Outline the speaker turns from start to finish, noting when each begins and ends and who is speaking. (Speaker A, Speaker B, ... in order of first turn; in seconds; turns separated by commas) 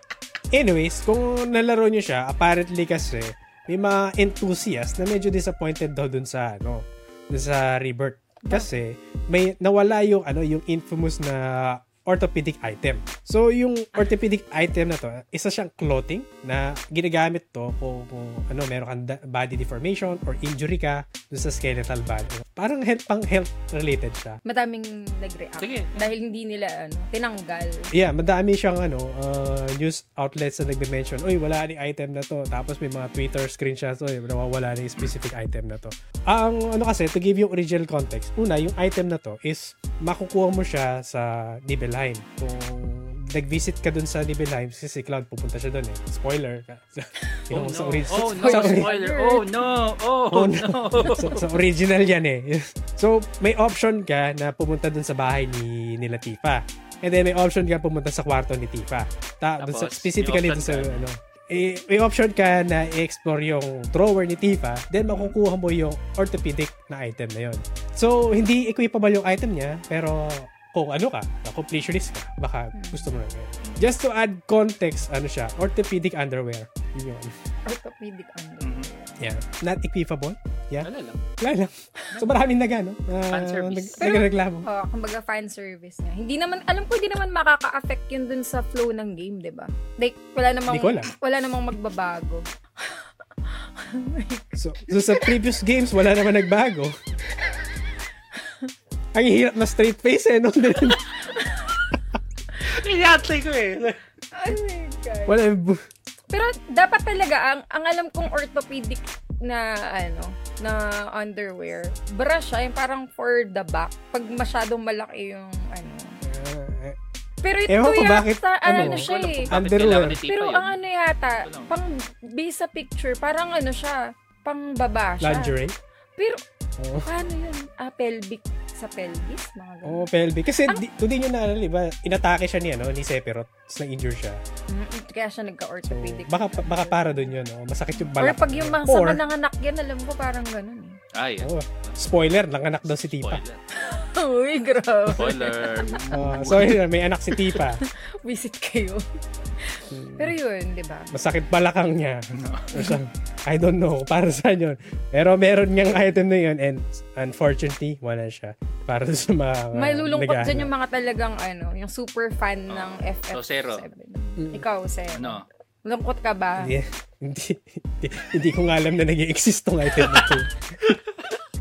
Speaker A: 0.5-24.4, Speaker B: 8.4-8.7, Speaker B: 24.4-27.9, Speaker C: 25.6-26.1, Speaker A: 27.9-48.9, Speaker C: 47.5-51.4, Speaker B: 48.2-49.5, Speaker A: 50.3-77.3, Speaker B: 51.0-51.4, Speaker C: 59.6-61.0, Speaker B: 72.7-73.2, Speaker C: 73.6-73.9, Speaker B: 77.7-79.1, Speaker C: 78.6-78.9, Speaker A: 79.2-84.7, Speaker C: 80.8-81.2, Speaker C: 83.3-84.0, Speaker B: 84.0-95.4, Speaker A: 90.7-91.1, Speaker A: 94.5-96.9, Speaker B: 97.3-97.7, Speaker B: 98.4-98.7, Speaker A: 99.1-101.0, Speaker B: 101.0-102.0, Speaker C: 102.6-104.0, Speaker B: 104.3-105.4, Speaker A: 105.3-105.8, Speaker B: 106.3-116.2, Speaker A: 116.2-117.0, Speaker B: 117.4-119.5, Speaker A: 117.7-120.2, Speaker C: 118.7-120.8, Speaker B: 120.2-125.5, Speaker C: 121.4-121.7, Speaker A: 125.2-125.8, Speaker A: 126.8-127.1, Speaker B: 127.0-130.1, Speaker A: 129.8-134.4, Speaker B: 134.7-137.3, Speaker A: 135.9-139.2, Speaker B: 138.2-141.0, Speaker C: 141.1-142.1, Speaker A: 141.4-143.4, Speaker C: 142.8-143.6, Speaker B: 143.7-146.5, Speaker C: 145.1-146.8, Speaker A: 146.1-147.8, Speaker B: 147.3-149.0, Speaker B: 149.6-151.1, Speaker A: 149.9-150.3, Speaker A: 151.1-160.7, Speaker C: 152.3-152.8, Speaker B: 159.7-166.7, Speaker C: 162.7-163.8, Speaker A: 164.4-164.7, Speaker C: 165.1-165.4, Speaker A: 166.6-170.5, Speaker C: 170.0-170.3